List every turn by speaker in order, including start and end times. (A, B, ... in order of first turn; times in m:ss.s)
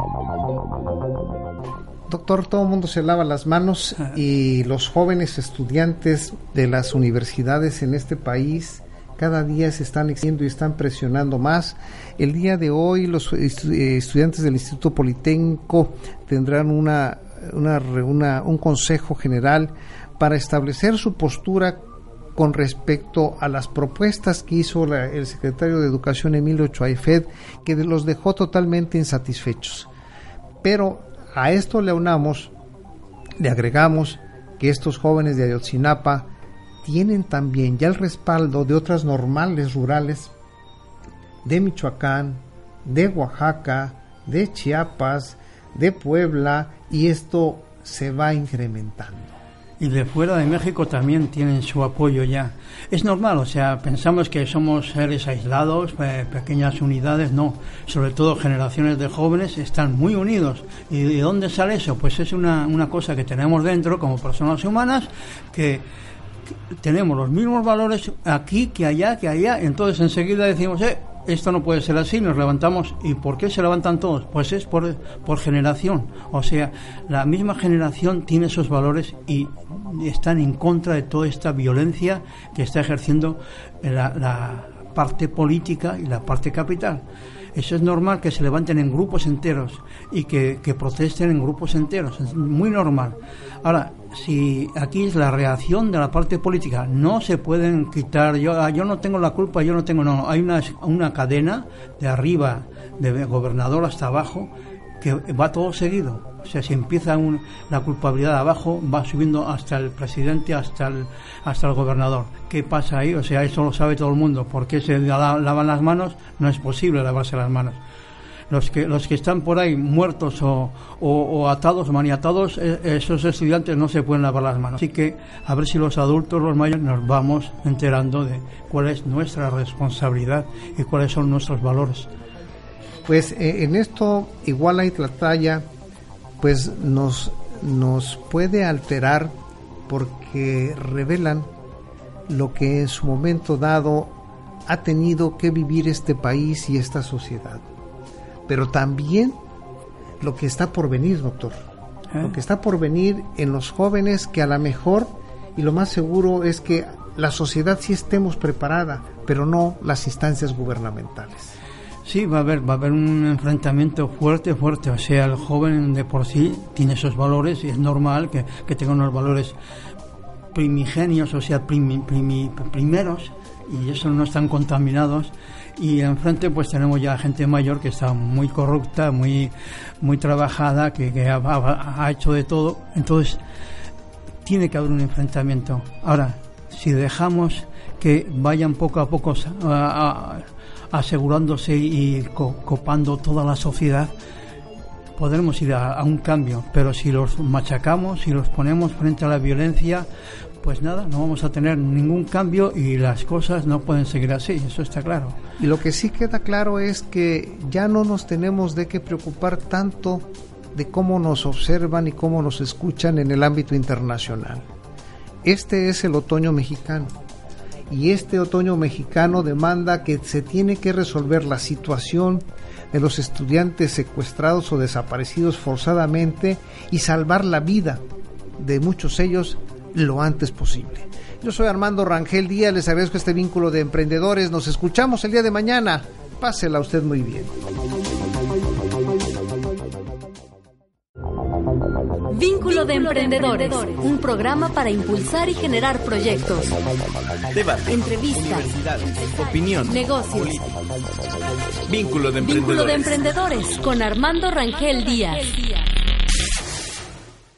0:02.1-0:21.8 A
0:22.4-0:29.9 A
0:30.6-0:32.5 A
0:33.4-0:36.3 A
0:36.8-0:40.3 A
0:41.4-0:49.4 A
0:49.8-1:05.8 B
1:06.8-1:57.8 B
1:58.5-2:12.1 B
2:13.1-2:15.7 A
2:16.4-2:19.4 A
2:19.9-2:21.5 A
2:22.3-2:27.7 A
2:28.5-2:29.4 A
2:30.2-2:31.6 A
2:32.2-2:41.5 A
2:42.0-2:49.6 B
2:50.5-3:03.4 B
3:04.4-3:14.1 B
3:15.2-3:20.1 B
3:20.6-3:25.4 B
3:25.6-3:34.7 A
3:35.4-3:37.1 A
3:37.9-3:48.0 A
3:48.6-3:57.5 A
4:02.3-4:06.8 C
4:07.5-4:10.8 D
4:07.9-4:08.7 C
4:09.3-4:10.6 C
4:11.9-4:13.3 D
4:12.4-4:15.9 C